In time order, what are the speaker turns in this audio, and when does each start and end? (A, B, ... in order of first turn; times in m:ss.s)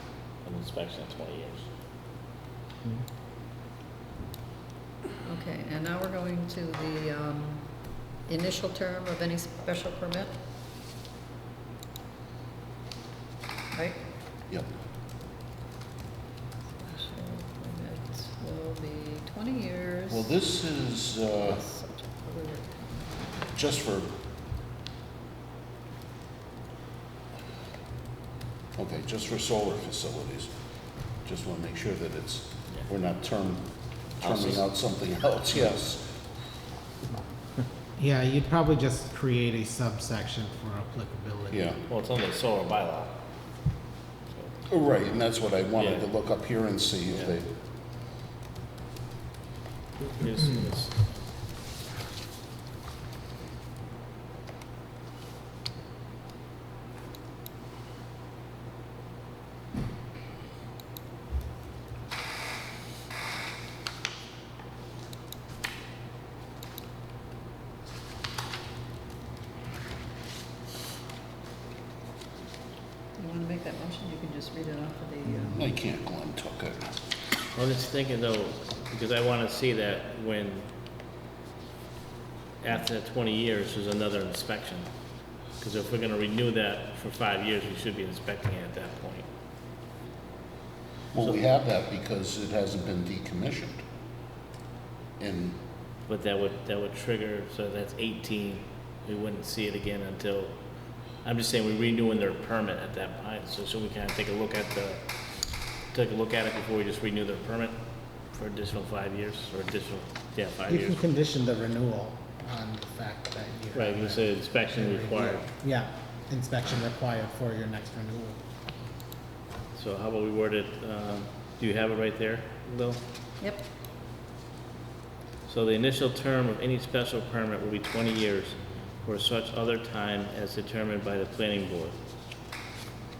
0:00.4-0:01.7 A
0:05.2-0:10.3 B
0:13.7-0:14.0 B
0:16.8-0:20.2 B
0:20.1-0:21.6 C
0:21.4-0:23.4 B
0:23.5-0:24.1 C
0:28.8-0:30.5 C
0:31.2-0:36.1 C
0:34.2-0:34.6 A
0:38.0-0:41.6 D
0:41.5-0:41.8 C
0:41.9-0:43.1 A
0:44.7-0:47.5 C
0:50.0-0:51.0 A
1:13.2-1:15.7 B
1:15.5-1:16.9 C
1:17.6-1:20.7 A
1:22.6-1:24.9 A
1:25.6-1:29.3 A
1:31.1-1:33.8 C
1:35.2-1:35.6 C
1:36.1-1:40.5 A
1:41.2-1:45.0 A
1:45.9-1:47.8 A
1:48.3-1:51.0 A
1:50.7-1:58.4 D
1:53.8-1:55.5 A
1:59.8-2:03.0 A
2:05.5-2:12.0 A